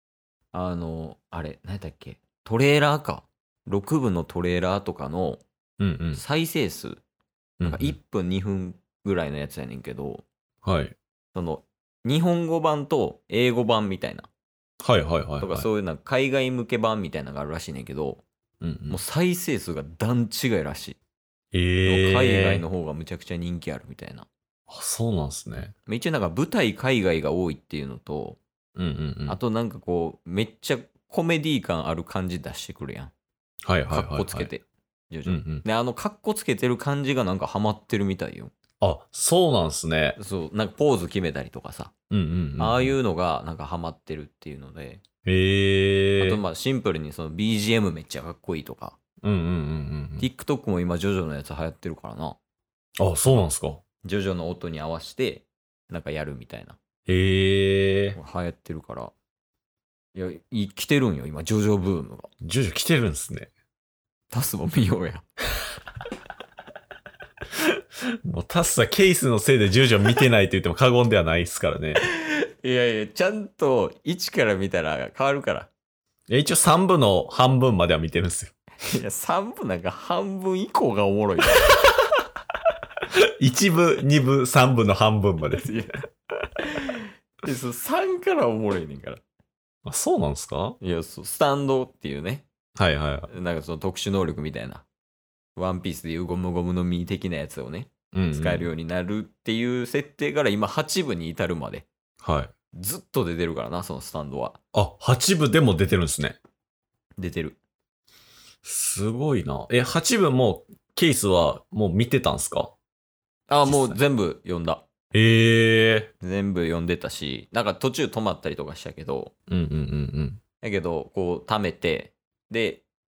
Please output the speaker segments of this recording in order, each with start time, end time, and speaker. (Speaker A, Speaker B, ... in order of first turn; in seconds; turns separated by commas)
Speaker A: 0.5-5.4, Speaker B: 5.8-6.2, Speaker A: 6.1-7.0, Speaker B: 7.6-8.0, Speaker A: 7.6-10.2, Speaker B: 10.6-11.0, Speaker A: 11.3-14.3, Speaker B: 14.8-15.7, Speaker A: 15.4-18.2, Speaker B: 18.6-19.0, Speaker A: 18.9-21.0, Speaker B: 21.5-22.6, Speaker A: 21.9-24.3, Speaker B: 24.7-25.7, Speaker A: 25.6-28.4, Speaker B: 28.8-29.4, Speaker A: 29.3-33.1, Speaker B: 33.6-34.5, Speaker A: 33.9-38.5, Speaker B: 35.3-35.6, Speaker B: 38.8-40.2, Speaker A: 40.2-41.9, Speaker B: 42.1-42.9, Speaker A: 42.6-45.0, Speaker B: 45.2-46.4, Speaker A: 46.2-49.0, Speaker B: 49.2-50.3, Speaker A: 50.2-52.4, Speaker B: 53.0-53.8, Speaker A: 54.0-56.8, Speaker B: 57.1-58.2, Speaker A: 58.2-59.1, Speaker A: 60.1-62.3, Speaker B: 62.4-63.5, Speaker A: 64.3-65.2, Speaker B: 68.2-72.0, Speaker A: 72.0-75.7, Speaker B: 76.3-78.5, Speaker A: 78.9-81.8, Speaker B: 83.1-85.7, Speaker A: 85.5-86.0, Speaker A: 86.6-89.2, Speaker B: 89.8-90.8, Speaker A: 90.8-92.5, Speaker B: 92.8-93.3, Speaker A: 93.3-94.9, Speaker A: 95.6-101.9, Speaker B: 98.1-98.7, Speaker B: 102.2-102.5, Speaker A: 102.8-104.6, Speaker B: 104.7-106.4, Speaker A: 107.2-107.6, Speaker B: 108.7-112.7, Speaker A: 113.5-114.8, Speaker B: 113.7-114.0, Speaker B: 115.1-116.1, Speaker A: 116.2-119.3, Speaker B: 119.5-120.4, Speaker A: 120.6-122.8